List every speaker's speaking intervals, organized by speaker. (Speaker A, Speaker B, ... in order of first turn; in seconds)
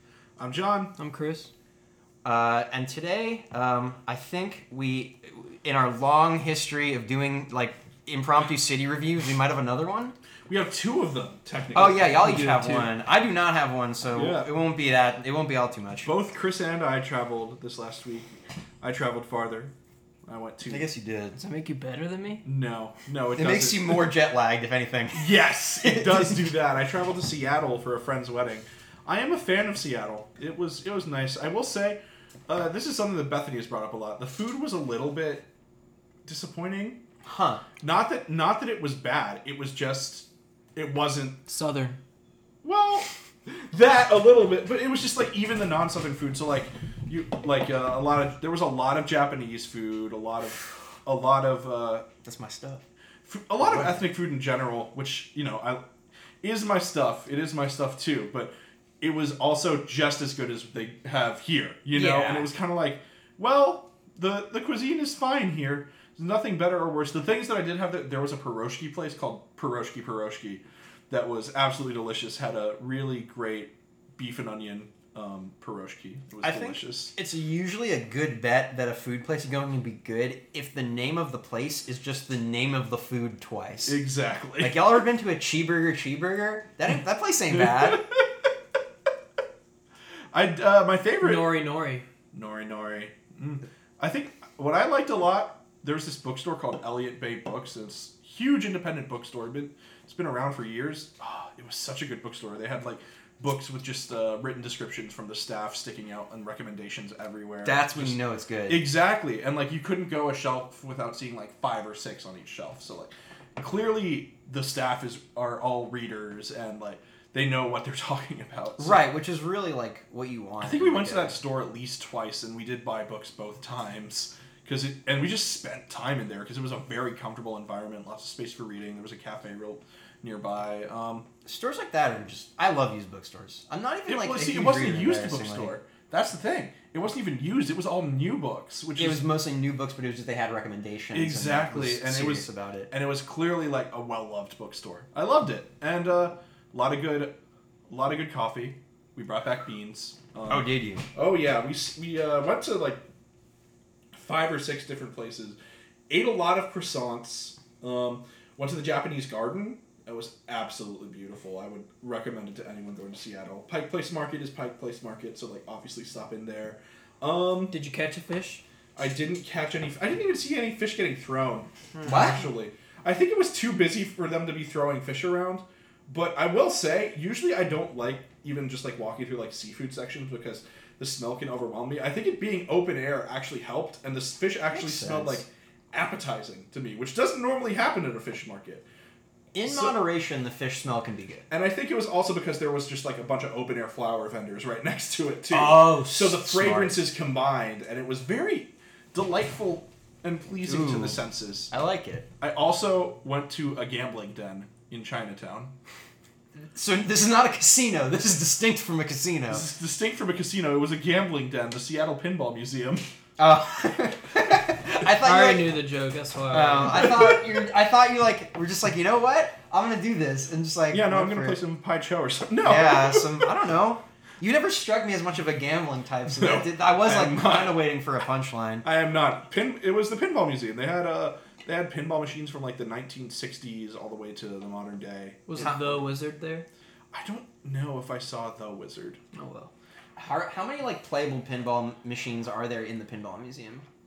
Speaker A: 0.4-0.9, 10.5-12.9, 14.1-14.5, 16.0-19.7, 20.2-20.9, 22.4-24.1, 25.1-35.5, 36.2-37.0, 37.8-41.5, 42.6-52.1, 53.2-55.8, 56.4-77.1, 83.8-85.0, 87.5-88.5, 90.3-91.6, 92.3-119.0, 120.6-131.3, 134.1-139.2, 141.1-147.4, 147.9-153.0, 154.1-155.6, 156.1-167.8, 169.0-188.9, 189.7-189.9, 191.5-201.7, 202.4-205.7, 209.5-213.1, 216.9-217.4, 220.9-223.5, 226.3-227.8, 228.8-235.7, 237.1-239.2
Speaker B: 1.0-1.5, 21.4-22.4, 41.5-42.0, 91.2-92.0, 167.7-168.6, 215.2-217.1, 235.5-236.7, 239.3-239.7
Speaker C: 2.2-10.1, 11.7-16.1, 20.7-21.4, 23.3-26.5, 37.2-37.6, 52.2-52.8, 53.6-54.1, 61.9-62.5, 76.4-84.0, 84.6-88.0, 107.6-108.9, 118.8-121.4, 131.5-135.8, 139.0-142.9, 150.5-151.1, 172.0-172.5, 184.7-185.5, 189.5-191.4, 195.5-197.1, 200.6-202.3, 206.7-209.7, 213.4-215.8, 216.5-221.6, 222.6-228.8, 235.6-236.1, 240.2-243.8